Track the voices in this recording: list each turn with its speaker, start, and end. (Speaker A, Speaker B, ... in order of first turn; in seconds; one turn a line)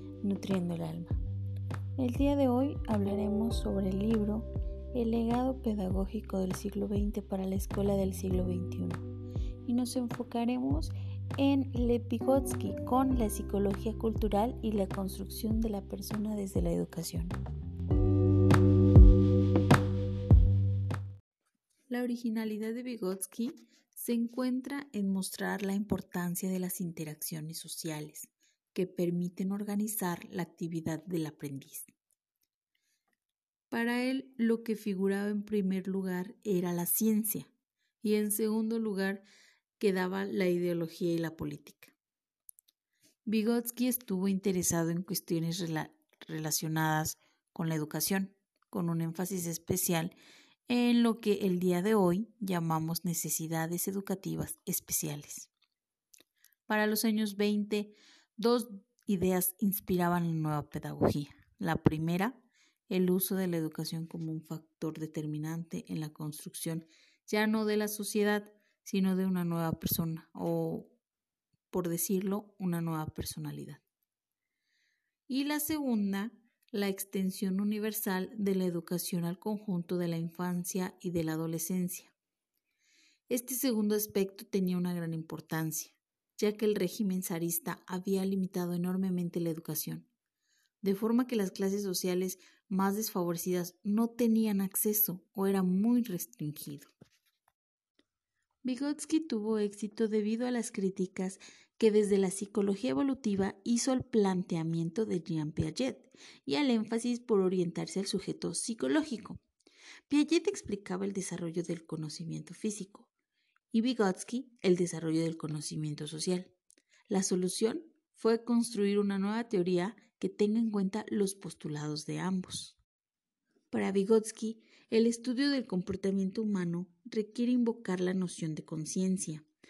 Speaker A: 0.2-1.2
Speaker A: 2.0-9.1
Speaker A: 9.7-17.4
Speaker A: 21.9-31.9
Speaker A: 33.7-37.5
Speaker A: 38.0-39.2
Speaker A: 39.8-41.9
Speaker A: 43.3-50.1
Speaker A: 50.7-55.5
Speaker A: 56.7-70.9
Speaker A: 71.7-73.8
Speaker A: 75.3-82.1
Speaker A: 83.3-90.1
Speaker A: 90.8-96.9
Speaker A: 98.6-109.4
Speaker A: 110.1-113.1
Speaker A: 113.7-116.5
Speaker A: 117.1-122.8
Speaker A: 123.7-129.4